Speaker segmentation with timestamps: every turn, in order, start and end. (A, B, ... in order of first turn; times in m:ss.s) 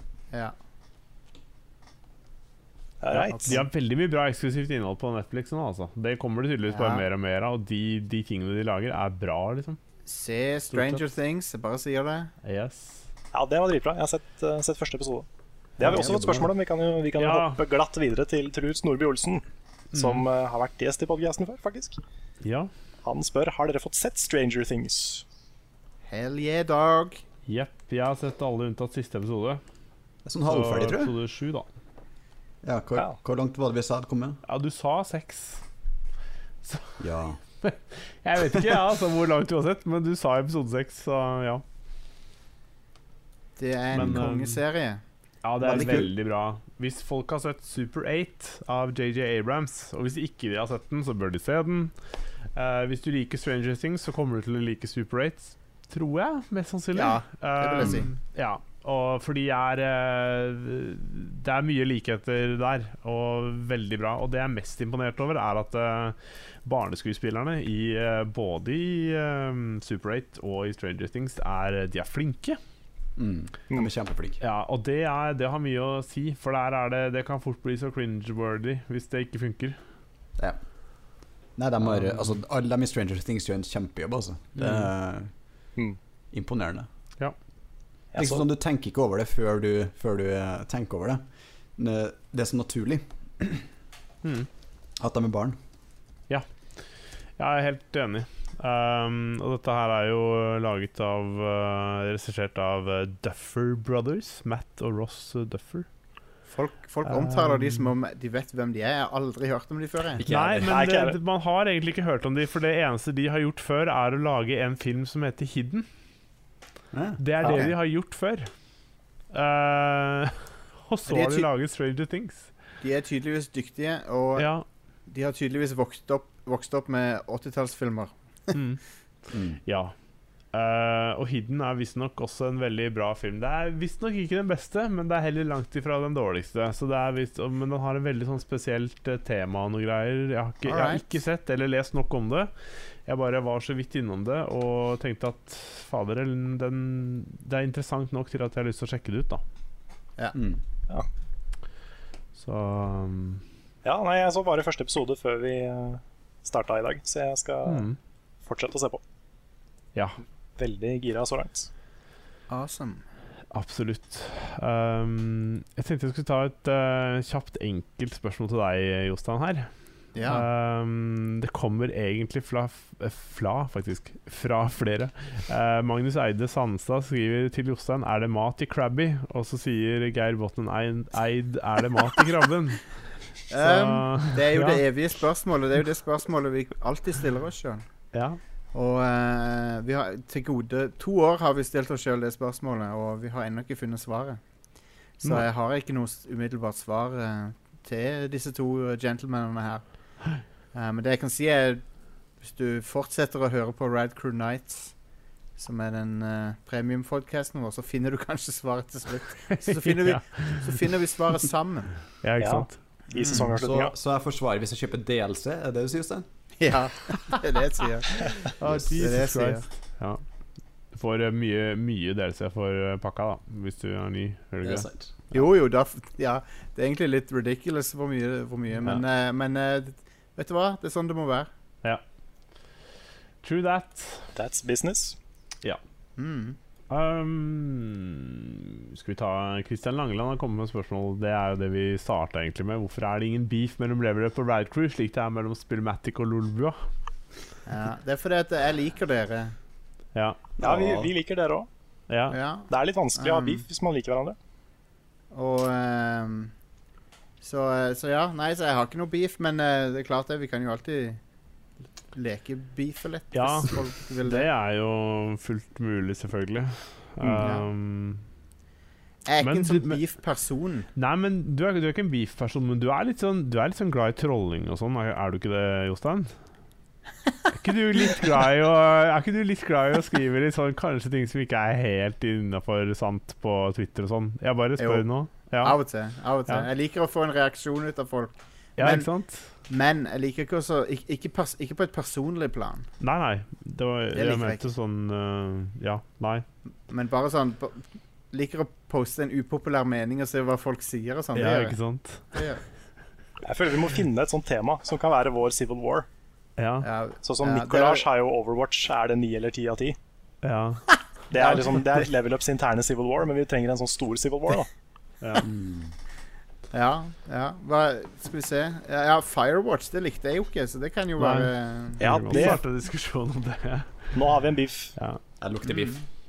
0:03.0-0:03.6 A
0:03.1-0:09.8 B
0:03.3-0:03.6 C
0:06.7-0:07.0 C
0:10.0-0:12.3 C
0:10.7-0:11.0 B
0:12.4-0:13.0 B
0:13.3-0:15.3 A
0:15.8-0:22.0 A
0:15.8-0:16.5 D
0:15.8-0:16.3 C
0:17.2-0:17.6 B
0:19.9-0:20.2 B
0:22.4-0:22.7 B
0:23.0-0:25.2 A
0:26.1-0:27.2 C
0:27.5-0:29.6 B
0:30.2-0:31.1 D
0:30.4-0:31.7 B
0:32.6-0:34.4 D
0:34.4-0:35.6 B
0:36.6-0:37.0 B
0:37.0-0:37.4 D
0:37.6-0:41.6 B
0:43.6-0:45.0 C
0:43.9-0:44.2 D
0:43.9-0:44.6 B
0:45.4-0:51.9 B
0:45.6-0:46.1 D
0:52.5-1:12.6 B
0:56.9-0:58.1 C
1:13.2-1:14.4 D
1:14.4-1:19.8 B
1:21.6-1:25.3 D
1:21.8-1:22.3 B
1:24.6-1:24.9 B
1:26.3-1:26.9 D
1:28.1-1:28.4 A
1:28.1-1:31.2 D
1:31.8-1:33.6 D
1:35.0-1:35.6 D
1:37.4-1:45.9 B
1:46.5-1:50.2 C
1:47.0-1:47.9 B
1:50.2-1:50.8 D
1:50.3-1:55.9 B
1:50.7-1:51.2 A
1:56.9-1:57.6 D
1:57.2-1:58.5 B
1:57.4-1:57.7 C
1:59.3-2:02.5 B
2:01.1-2:01.5 C
2:02.8-2:04.5 C
2:04.4-2:04.6 B
2:05.1-2:08.5 C
2:08.5-2:08.8 B
2:09.3-2:09.6 D
2:09.6-2:09.9 B
2:10.5-2:22.5 B
2:20.6-2:21.0 C
2:23.0-2:29.4 B
2:30.3-2:30.6 D
2:32.4-2:33.4 B
2:33.8-2:37.9 A
2:37.6-2:38.0 B
2:38.4-2:39.0 A
2:40.6-2:41.7 A
2:42.5-2:43.0 C
2:43.5-2:49.7 B
2:50.1-2:50.4 C
2:50.2-3:02.9 B
3:03.5-3:07.8 C
3:03.6-3:04.8 B
3:08.1-3:08.4 B
3:08.7-3:14.4 C
3:15.2-3:19.8 C
3:20.7-3:21.8 C
3:22.4-3:24.9 C
3:25.6-3:32.0 C
3:29.6-3:30.8 B
3:32.2-3:32.8 B
3:32.4-3:33.9 A
3:33.1-3:33.5 C
3:33.3-3:36.3 D
3:36.6-3:39.6 C
3:38.6-3:40.2 B
3:38.7-3:38.9 D
3:40.9-3:45.4 B
3:44.6-3:45.2 D
3:45.3-3:51.5 C
3:53.4-3:54.3 B
3:54.3-3:55.2 A
3:56.2-3:56.6 C
3:56.9-4:06.8 B
4:07.6-4:09.5 C
4:10.1-4:11.1 B
4:10.6-4:11.7 A
4:12.1-4:12.4 B
4:12.3-4:13.6 C
4:12.7-4:14.4 A
4:15.3-4:16.5 C
4:17.4-4:21.2 C
4:22.1-4:24.5 C
4:23.3-4:28.2 B
4:27.3-4:27.6 C
4:29.2-4:30.9 C
4:29.4-4:30.0 B
4:30.9-4:36.3 B
4:37.5-4:45.8 B
4:44.8-4:45.1 C
4:45.6-4:49.1 C
4:48.8-4:49.5 B
4:49.6-4:52.8 C
4:53.0-4:56.4 B
4:54.1-4:54.6 C
4:56.9-5:01.8 C
5:01.3-5:02.4 B
5:02.3-5:02.6 C
5:03.4-5:06.1 A
5:06.6-5:06.9 B
5:06.8-5:08.0 C
5:07.2-5:10.0 A
5:10.4-5:10.8 B
5:11.3-5:14.7 A
5:11.3-5:12.0 C
5:15.4-5:15.9 D
5:16.7-5:22.6 C
5:21.2-5:24.1 B
5:22.0-5:22.6 A
5:24.1-5:24.9 A
5:25.4-5:26.0 D
5:25.7-5:26.0 C